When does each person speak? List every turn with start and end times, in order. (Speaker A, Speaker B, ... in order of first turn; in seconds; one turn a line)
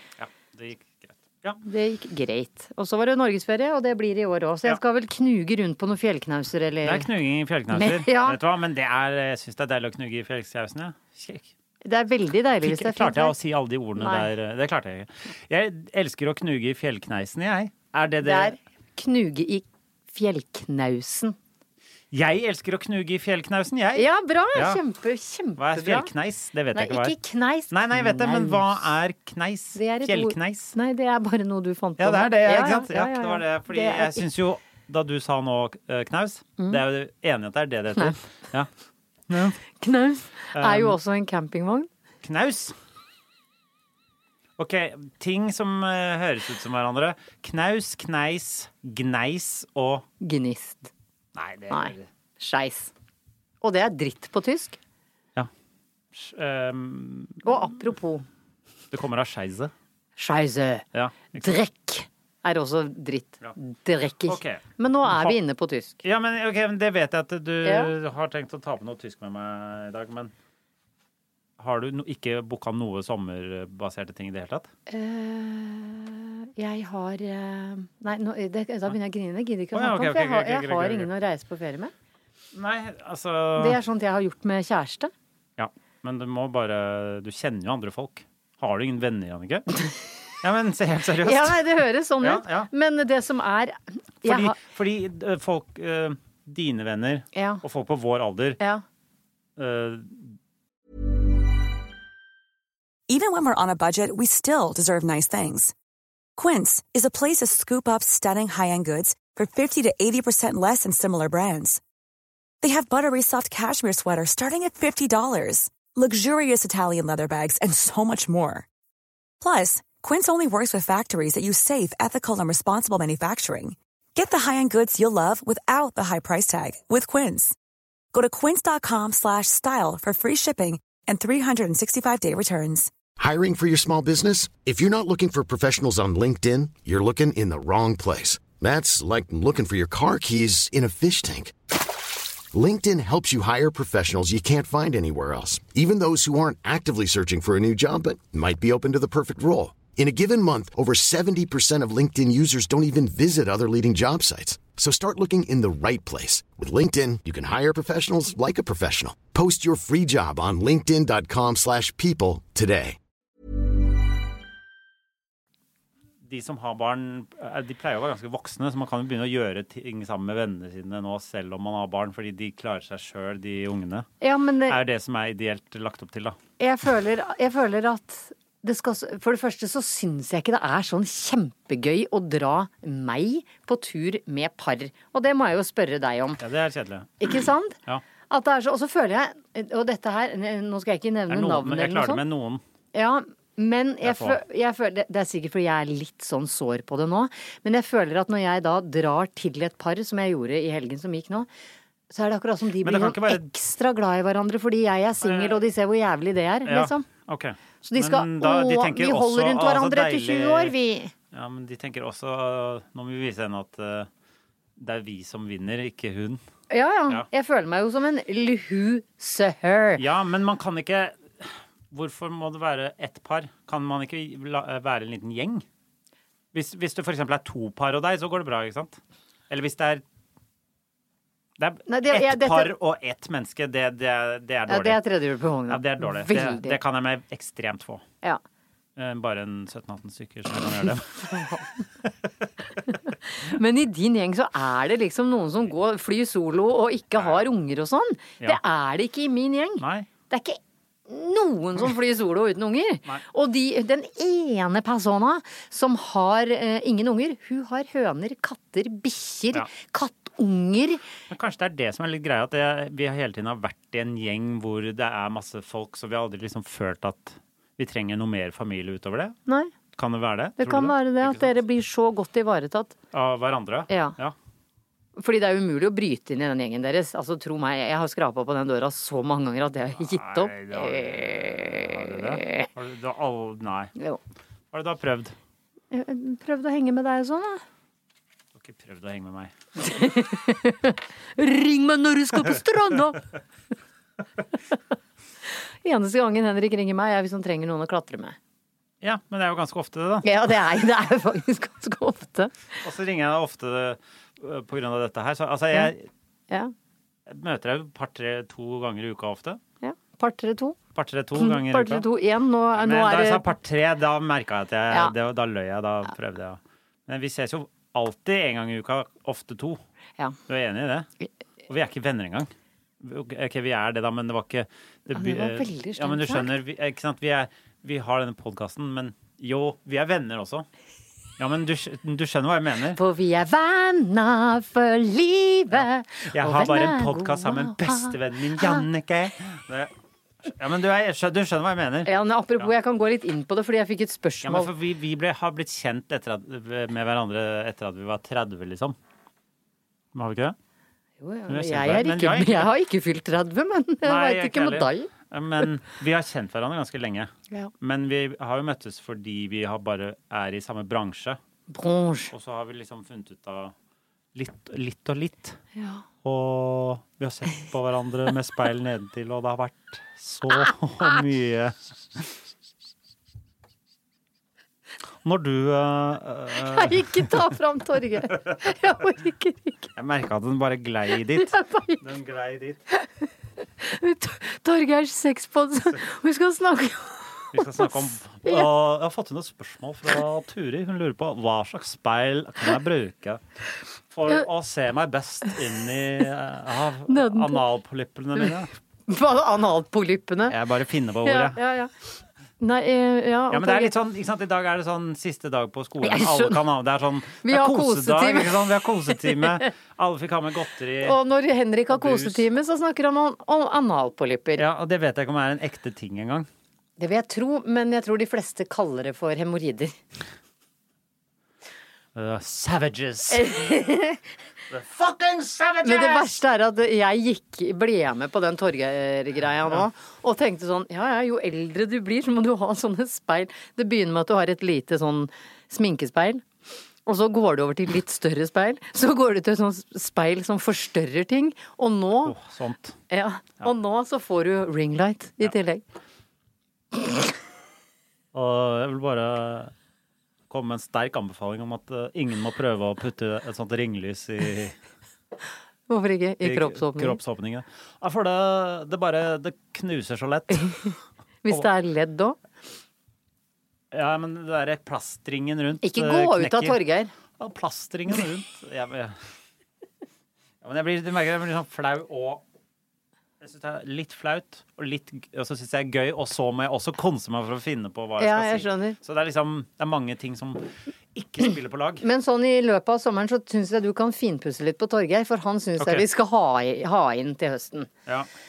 Speaker A: 0.2-1.6
Speaker B: 1.6-7.1
Speaker A: 6.8-11.5
Speaker B: 7.7-8.4
Speaker B: 11.8-13.3
Speaker A: 12.6-18.6
Speaker B: 14.0-14.3
Speaker B: 18.2-21.4
Speaker A: 22.1-24.8
Speaker B: 23.9-26.1
Speaker A: 25.6-27.1
Speaker B: 26.7-28.8
Speaker A: 27.7-30.8
Speaker B: 29.8-34.2
Speaker A: 32.0-38.7
Speaker A: 39.3-39.6
Speaker B: 39.7-41.9
Speaker A: 40.5-41.0
Speaker A: 42.2-42.8
Speaker A: 44.6-50.1
Speaker B: 50.2-50.9
Speaker A: 51.4-52.1
Speaker B: 51.7-52.9
Speaker B: 53.6-54.8
Speaker A: 56.1-57.5
Speaker B: 57.4-58.2
Speaker A: 58.9-59.7
Speaker B: 60.2-66.0
Speaker A: 60.9-61.5
Speaker A: 64.3-65.4
Speaker A: 66.0-70.3
Speaker B: 67.6-67.9
Speaker A: 71.6-74.7
Speaker B: 74.9-81.9
Speaker A: 79.7-81.1
Speaker A: 82.5-83.8
Speaker B: 83.6-85.1
Speaker A: 85.6-89.7
Speaker A: 90.4-91.7
Speaker B: 91.2-94.6
Speaker A: 92.2-92.7
Speaker A: 94.2-98.6
Speaker B: 97.3-97.6
Speaker A: 99.6-100.3
Speaker C: 103.1-105.7
Speaker C: 106.4-111.8
Speaker C: 112.6-118.7
Speaker C: 119.4-127.5
Speaker C: 128.1-132.9
Speaker D: 133.2-141.5
Speaker D: 142.5-163.0
Speaker A: 166.2-174.1
Speaker B: 174.2-174.8
Speaker A: 174.7-176.4
Speaker B: 176.6-186.4
Speaker A: 186.4-187.2
Speaker B: 187.2-187.8
Speaker B: 188.3-192.2
Speaker A: 191.3-192.6
Speaker B: 192.9-201.5
Speaker A: 194.0-194.4
Speaker B: 202.1-207.1
Speaker A: 202.8-203.5
Speaker A: 205.2-205.6
Speaker A: 206.7-210.7
Speaker B: 207.8-211.1
Speaker A: 211.3-214.1
Speaker A: 214.8-216.4
Speaker B: 216.7-220.0
Speaker A: 220.0-225.7
Speaker A: 226.5-229.0
Speaker A: 229.5-230.0
Speaker A: 231.6-235.0
Speaker B: 231.9-232.7
Speaker B: 234.7-236.8
Speaker A: 235.7-238.0
Speaker A: 239.0-241.3
Speaker B: 241.2-241.7
Speaker B: 242.9-261.0
Speaker A: 249.8-250.1
Speaker A: 261.3-269.4
Speaker B: 269.5-269.7
Speaker A: 270.0-271.6
Speaker B: 270.6-273.0
Speaker A: 273.1-274.3
Speaker B: 273.9-274.1
Speaker B: 275.2-282.7
Speaker A: 280.0-283.9
Speaker A: 284.7-285.3
Speaker B: 285.9-287.6
Speaker A: 288.6-289.5
Speaker B: 289.8-293.2
Speaker B: 295.8-298.4
Speaker A: 299.0-300.3
Speaker B: 300.2-302.5
Speaker A: 302.8-306.1
Speaker A: 307.3-309.6
Speaker B: 309.8-310.8
Speaker A: 310.9-312.1
Speaker B: 311.4-313.5
Speaker A: 312.8-319.8
Speaker A: 320.5-321.1
Speaker A: 321.7-322.5
Speaker A: 323.0-330.7
Speaker B: 325.1-326.5
Speaker A: 331.4-333.0
Speaker B: 333.0-338.8
Speaker A: 336.3-339.9
Speaker A: 340.4-342.1
Speaker B: 342.0-344.7
Speaker A: 344.4-349.0
Speaker A: 350.1-350.5
Speaker B: 351.2-355.1
Speaker A: 351.5-352.7
Speaker A: 354.0-361.4
Speaker B: 361.7-362.3
Speaker A: 362.3-363.7
Speaker A: 364.3-365.6
Speaker B: 365.8-366.0
Speaker A: 366.2-372.3
Speaker A: 375.2-377.3
Speaker B: 376.5-379.9
Speaker A: 380.0-382.8
Speaker B: 381.4-382.0
Speaker B: 383.8-388.7
Speaker A: 387.5-393.4
Speaker A: 394.1-398.7
Speaker B: 397.1-397.6
Speaker B: 399.1-400.5
Speaker A: 400.5-401.6
Speaker B: 401.2-401.9
Speaker B: 402.6-403.9
Speaker A: 403.5-411.2
Speaker B: 406.0-406.6
Speaker B: 407.4-409.5
Speaker B: 411.0-414.6
Speaker A: 411.9-412.4
Speaker A: 414.6-416.5
Speaker B: 417.0-419.9
Speaker A: 422.1-423.5
Speaker B: 423.3-424.2
Speaker A: 424.7-426.3
Speaker B: 425.8-436.4
Speaker B: 437.1-442.4
Speaker A: 442.2-443.0
Speaker B: 443.1-445.8
Speaker A: 448.3-449.7
Speaker A: 450.5-454.8
Speaker B: 455.9-457.2
Speaker A: 456.4-460.9
Speaker B: 461.4-462.4
Speaker A: 463.9-466.8
Speaker B: 465.8-467.1
Speaker A: 467.4-469.2
Speaker A: 470.6-472.4
Speaker A: 473.4-482.0
Speaker B: 478.2-479.0
Speaker B: 482.0-487.9
Speaker A: 485.8-486.0